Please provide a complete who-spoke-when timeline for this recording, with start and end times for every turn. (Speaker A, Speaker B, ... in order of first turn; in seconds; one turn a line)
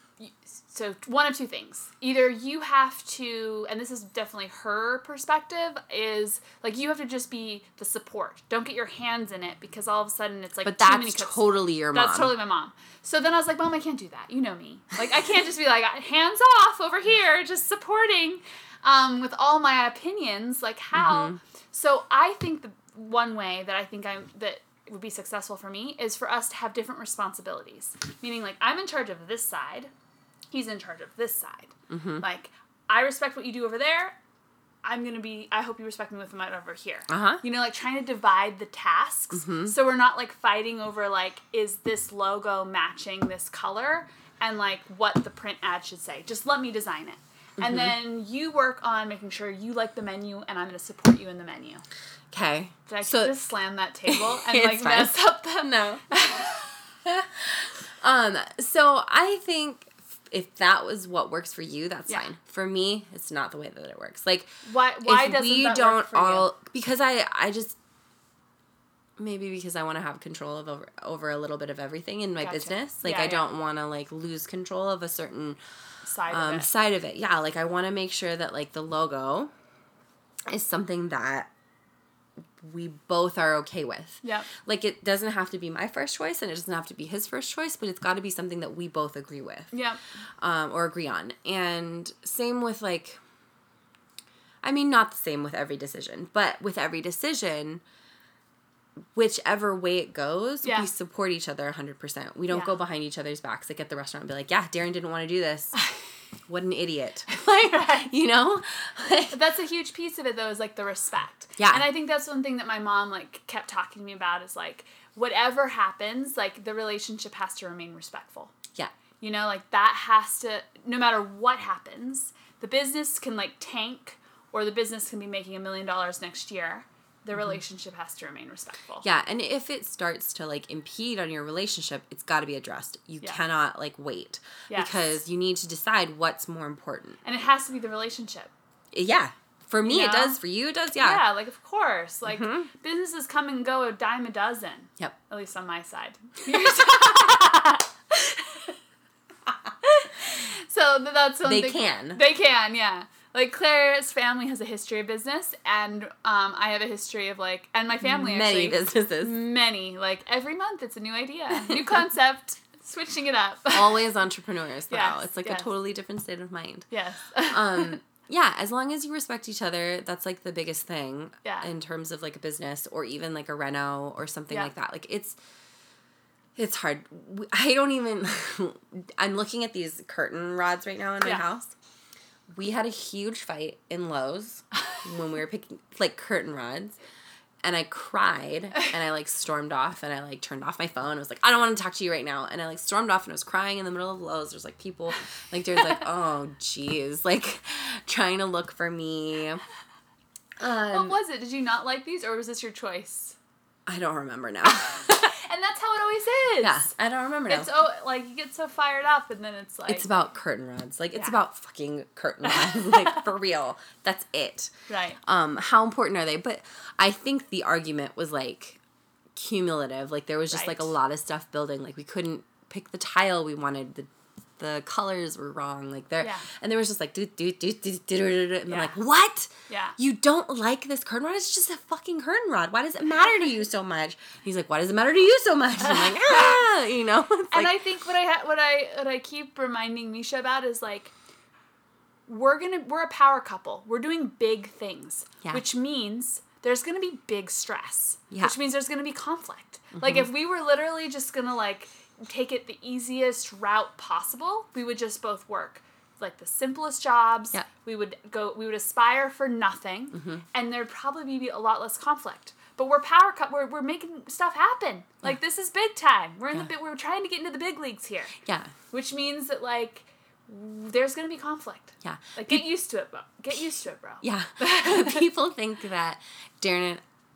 Speaker A: 0.2-29.9
Speaker B: 10.6-12.3
Speaker B: 20.9-21.4
Speaker A: 30.5-34.2
Speaker B: 31.9-32.2
Speaker A: 34.8-51.8
Speaker B: 37.1-37.4
Speaker B: 39.3-39.8
Speaker B: 47.6-47.9
Speaker B: 52.3-53.4
Speaker A: 52.9-55.5
Speaker B: 54.1-56.1
Speaker A: 56.1-56.7
Speaker B: 57.0-67.8
Speaker A: 64.7-66.5
Speaker B: 69.2-75.6
Speaker A: 72.4-73.5
Speaker A: 76.0-76.7
Speaker B: 76.3-79.5
Speaker B: 80.5-81.5
Speaker B: 82.6-89.8
Speaker A: 84.2-84.5
Speaker A: 89.7-90.0
Speaker B: 90.4-93.2
Speaker B: 94.6-97.8
Speaker B: 99.2-105.8
Speaker A: 100.6-100.9
Speaker A: 102.5-102.7
Speaker B: 106.5-109.4
Speaker A: 107.3-108.1
Speaker A: 109.3-118.5
Speaker B: 111.6-111.9
Speaker A: 119.2-129.0
Speaker B: 129.0-137.2
Speaker A: 134.7-135.1
Speaker A: 137.2-138.5
Speaker B: 138.9-141.2
Speaker A: 139.8-140.4
Speaker A: 141.0-148.8
Speaker B: 142.2-142.7
Speaker A: 149.8-164.0
Speaker B: 151.4-152.2
Speaker B: 158.0-159.4
Speaker B: 163.7-166.9
Speaker A: 164.9-165.7
Speaker A: 166.9-168.0
Speaker B: 167.5-175.4
Speaker A: 171.4-171.7
Speaker B: 176.6-181.7
Speaker B: 182.5-187.0
Speaker B: 187.6-199.6
Speaker B: 200.6-201.2
Speaker A: 200.9-203.4
Speaker B: 203.9-205.3
Speaker A: 204.7-206.9
Speaker B: 206.6-207.7
Speaker A: 207.5-210.1
Speaker B: 209.9-218.8
Speaker A: 212.4-213.2
Speaker A: 214.9-215.2
Speaker B: 219.3-237.8
Speaker A: 220.5-220.9
Speaker A: 228.7-228.9
Speaker A: 229.7-230.0
Speaker A: 235.8-236.6
Speaker A: 237.5-241.1
Speaker A: 242.3-268.4
Speaker B: 249.9-250.3
Speaker B: 260.1-260.4
Speaker B: 268.4-268.7
Speaker A: 268.9-275.3
Speaker B: 272.0-272.7
Speaker B: 274.2-277.0